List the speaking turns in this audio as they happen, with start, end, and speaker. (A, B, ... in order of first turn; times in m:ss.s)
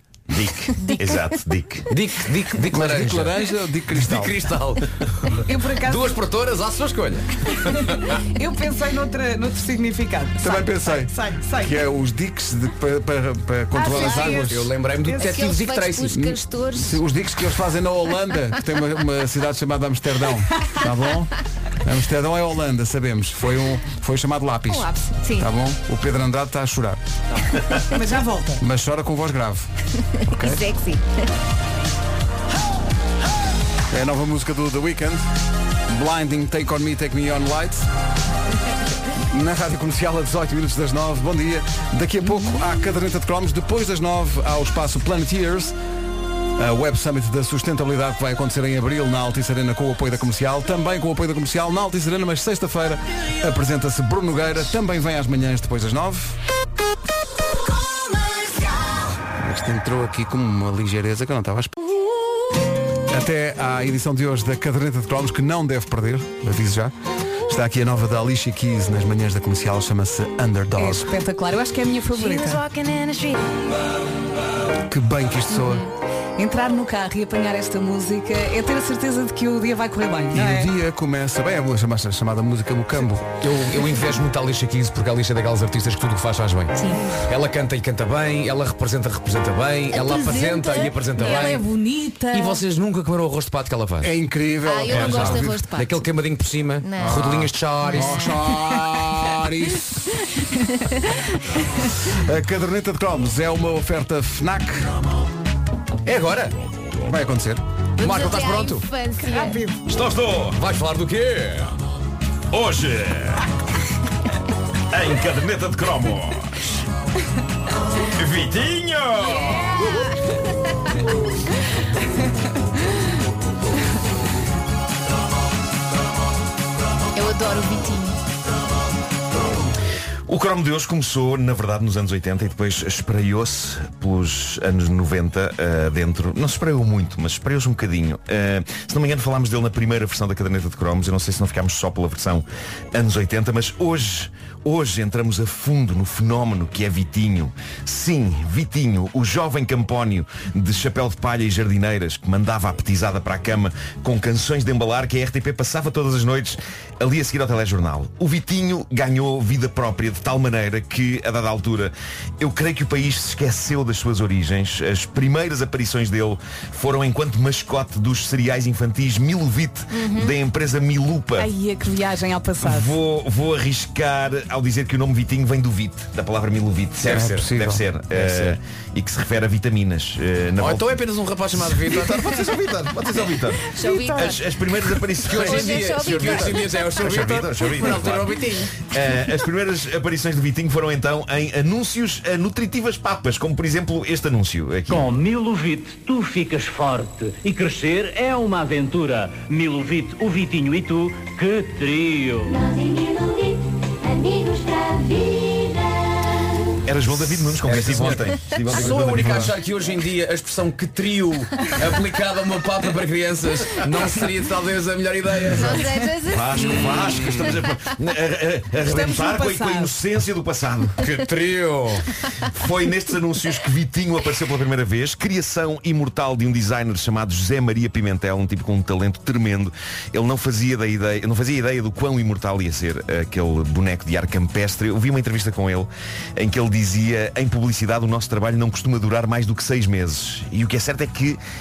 0:00.3-0:01.9 A
0:00.8-0:01.2 B
0:01.9-0:08.1 C
0:02.7-0:04.4 D
0:05.4-0:06.2 E
0:07.8-0:11.8 E
0:10.4-0:14.7 D
0:13.7-0:14.5 E
0:13.9-0:16.2 C
0:15.0-0:15.3 E
0:15.1-0:17.0 B
0:16.1-0:27.0 D
0:24.7-0:25.5 B
0:27.9-0:28.6 E
0:28.6-0:29.7 D
0:30.2-0:31.2 B
0:30.3-0:30.6 D
0:33.9-0:35.2 D
0:35.9-0:37.9 D
0:39.3-0:45.8 D
0:46.6-0:56.4 D
0:59.3-1:01.7 D
1:03.1-1:06.9 D
1:07.5-1:11.1 D
1:10.8-1:12.6 E
1:12.3-1:13.4 F
1:14.8-1:15.9 D
1:16.4-1:20.7 E
1:20.3-1:23.3 D
1:23.4-1:31.7 C
1:26.8-1:27.1 B
1:29.9-1:31.6 B
1:31.2-1:32.6 E
1:32.3-1:34.1 C
1:34.0-1:35.6 D
1:34.6-1:36.0 B
1:34.9-1:38.3 C
1:36.8-1:38.4 B
1:37.0-1:40.0 D
1:42.0-1:45.0 D
1:46.0-1:46.5 C
1:47.0-1:47.6 D
1:48.0-1:49.6 B
1:48.0-1:48.8 C
1:49.2-1:49.8 E
1:49.8-1:50.6 A
1:50.5-1:51.7 C
1:52.5-1:53.4 A
1:54.9-1:56.6 A
1:58.1-1:59.8 A
1:59.4-2:00.1 B
2:07.1-2:08.2 B
2:10.3-2:51.5 A
2:49.9-2:50.3 B
2:51.4-2:52.9 E
2:52.6-3:01.0 A
2:57.0-2:57.5 C
2:57.0-2:57.8 D
2:58.1-2:58.6 C
3:00.6-3:02.4 C
3:01.5-3:15.1 A
3:03.7-3:06.8 B
3:03.8-3:04.2 E
3:05.2-3:08.7 C
3:14.9-3:22.6 G
3:22.5-3:26.4 F
3:26.8-3:29.5 A
3:27.6-3:35.9 C
3:28.7-3:29.5 D
3:35.5-3:37.7 B
3:36.2-3:41.0 A
3:36.9-3:37.2 C
3:38.8-3:40.0 E
3:41.0-3:42.0 C
3:42.5-4:01.4 A